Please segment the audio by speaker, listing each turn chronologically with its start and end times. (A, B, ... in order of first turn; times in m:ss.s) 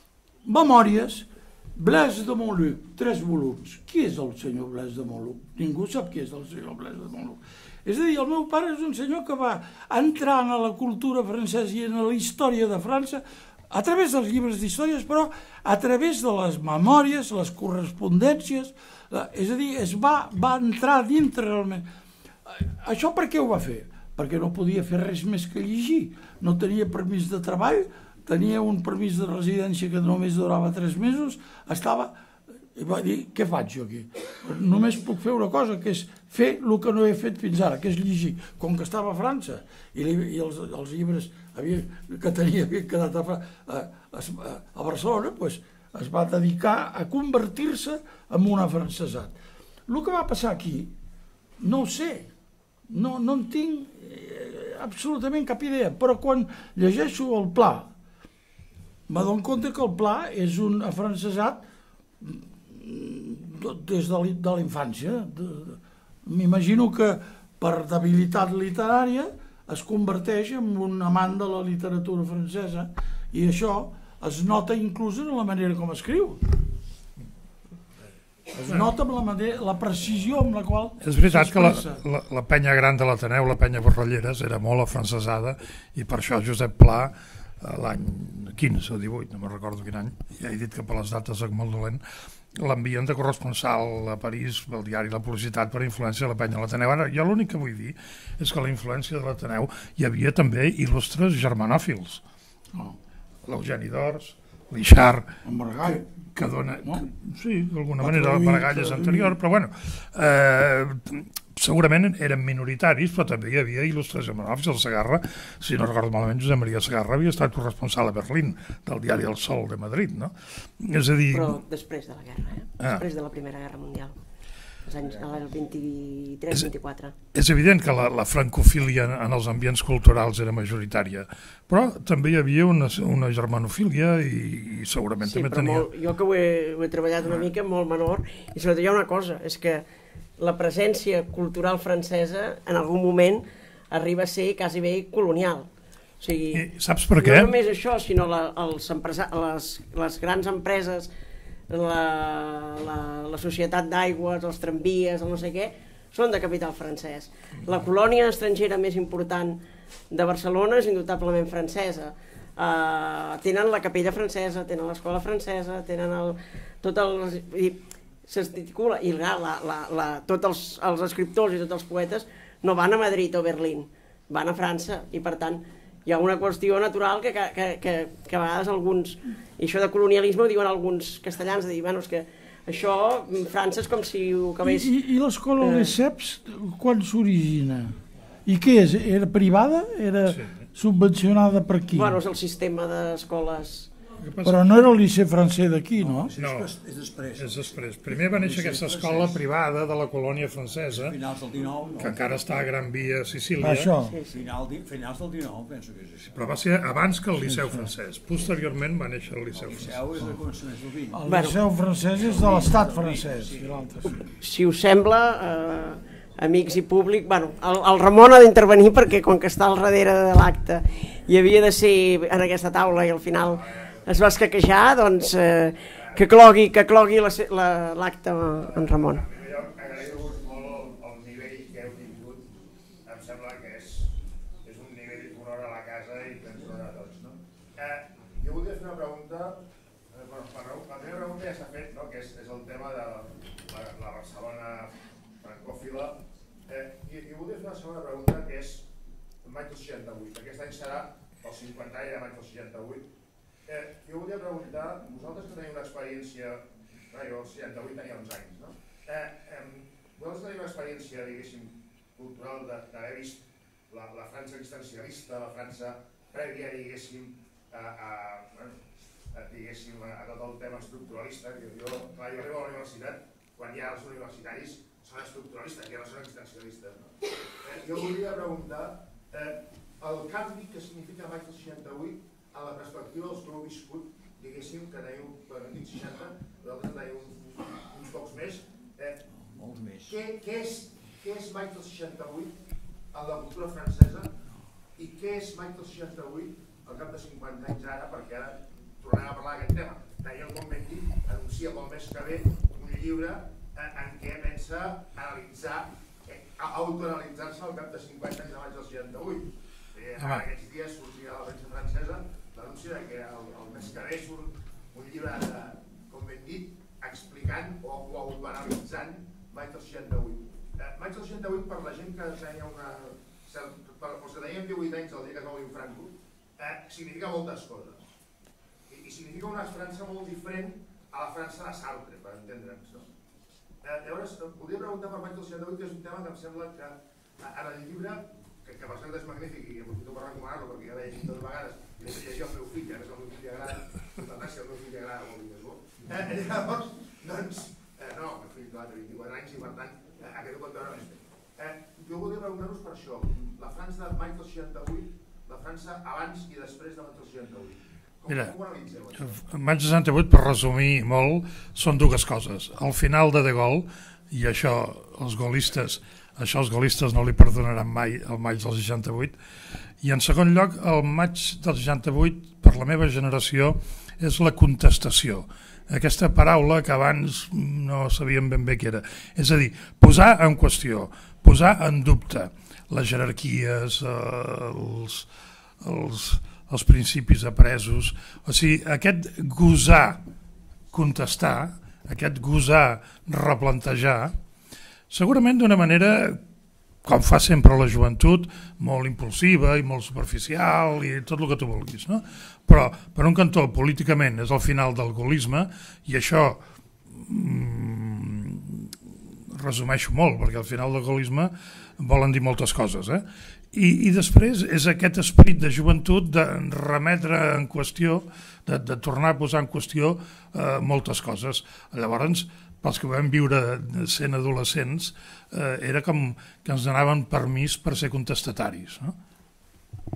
0:00.4-0:21.8 A
0:22.4-0:32.2 A
0:32.7-0:49.3 A
0:49.9-0:50.9 A
0:51.6-0:52.3 A
0:52.9-0:57.9 A
0:59.1-1:01.6 A
1:02.2-1:16.5 A
1:18.5-1:22.0 A
1:21.0-1:32.0 B
1:32.6-1:42.2 B
1:43.4-2:01.6 B
1:45.4-1:46.1 A
1:46.8-1:47.1 A
1:48.0-1:49.4 A
2:01.3-2:04.2 C
2:04.8-2:07.1 C
2:07.3-2:15.9 B
2:15.2-2:19.8 C
2:20.4-2:25.7 C
2:26.2-2:31.1 C
2:26.5-2:27.5 B
2:31.7-3:04.9 C
3:04.6-3:12.2 A
3:05.6-3:06.0 C
3:10.3-3:10.6 B
3:11.9-3:13.9 C
3:14.2-3:14.6 B
3:14.4-3:16.3 A
3:16.0-3:19.4 D
3:16.4-3:16.7 B
3:17.4-3:21.2 B
3:20.9-3:22.4 D
3:22.0-3:23.9 B
3:23.6-3:24.2 A
3:24.0-3:24.4 C
3:24.3-3:26.4 D
3:26.3-3:30.0 B
3:27.4-3:27.9 A
3:29.5-3:31.6 D
3:31.1-3:34.2 A
3:31.2-3:31.6 C
3:32.1-3:33.8 D
3:34.2-3:49.2 C
3:43.5-3:44.0 E
3:48.7-3:52.5 E
3:53.0-4:08.9 E
4:09.4-4:13.1 E
4:13.6-4:28.8 E
4:29.3-4:49.2 E
4:49.5-4:50.2 D
4:50.0-4:52.6 E
4:53.1-4:54.3 E
4:55.0-5:28.0 E
5:28.9-5:33.1 E
5:33.8-5:59.4 E
5:58.3-5:58.6 B
5:59.3-6:09.4 B
6:10.0-6:25.3 B
6:25.8-6:30.2 B
6:30.9-6:34.3 B
6:35.1-6:36.4 B
6:37.0-6:46.6 B
6:47.1-6:49.0 B
6:49.5-7:09.1 B